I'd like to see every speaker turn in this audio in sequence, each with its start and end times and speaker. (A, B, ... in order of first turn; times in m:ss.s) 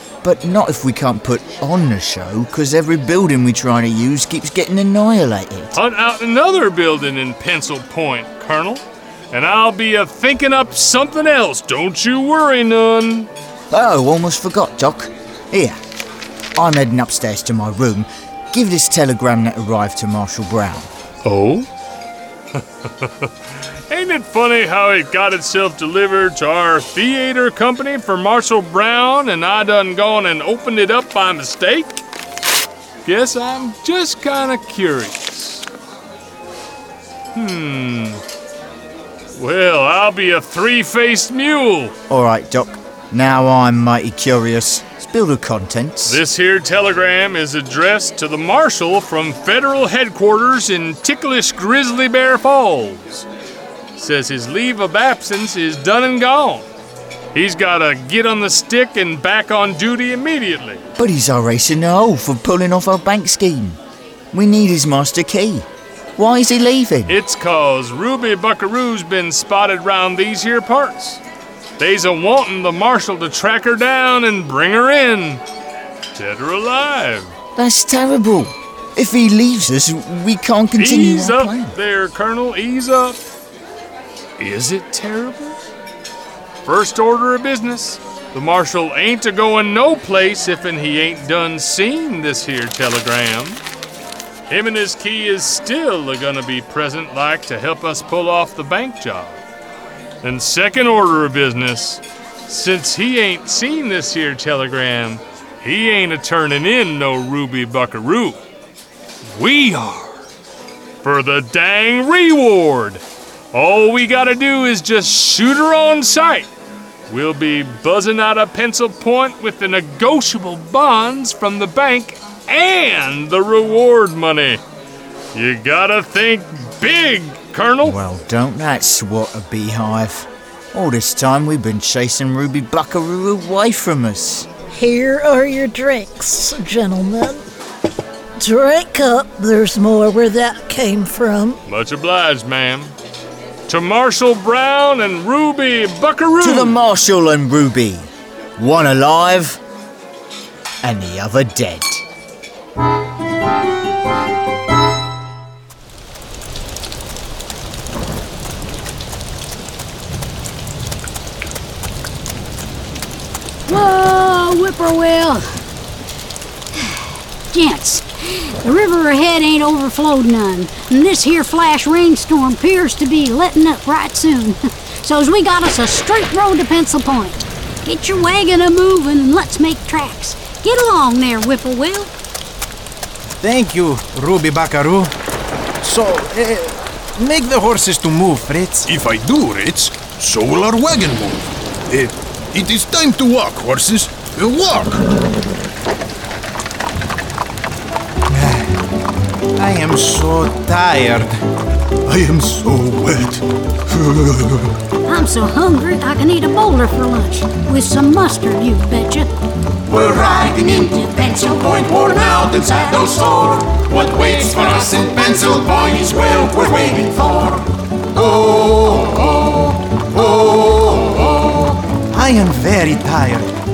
0:00.2-0:05.7 A
0:05.7-0:13.3 B
0:13.7-0:15.8 A
0:16.6-0:20.9 A
0:21.2-0:21.7 B
0:22.6-0:23.3 B
0:23.9-0:32.0 B
0:33.1-0:35.6 B
0:37.4-0:38.2 B
0:39.4-0:41.9 B
0:42.1-0:46.2 A
0:46.0-0:53.3 B
0:54.0-0:56.7 B
0:57.4-1:00.8 B
1:01.0-1:03.8 A
1:04.3-1:05.7 A
1:06.2-1:07.2 A
1:07.1-1:11.2 B
1:11.8-1:15.4 B
1:16.2-1:17.3 B
1:17.6-1:21.8 A
1:20.8-1:23.2 B
1:24.4-1:25.6 B
1:26.7-1:33.6 B
1:34.5-1:39.4 B
1:40.2-1:48.4 B
1:49.3-1:50.2 B
1:51.0-1:53.0 B
1:53.5-1:56.5 B
1:57.1-2:04.6 B
2:05.4-2:08.0 B
2:07.8-2:14.5 A
2:14.7-2:17.4 C
2:18.4-2:21.6 C
2:21.7-2:22.9 B
2:23.7-2:26.8 B
2:26.4-2:28.1 A
2:28.6-2:29.6 A
2:30.8-2:32.0 A
2:43.7-2:45.5 D
2:47.5-3:02.1 D
3:03.4-3:05.1 E
3:05.8-3:08.9 E
3:08.9-3:15.0 F
3:18.3-3:18.8 E
3:19.6-3:21.3 E
3:22.1-3:24.7 F
3:25.1-3:29.3 D
3:30.0-3:37.6 G
3:42.1-3:43.5 E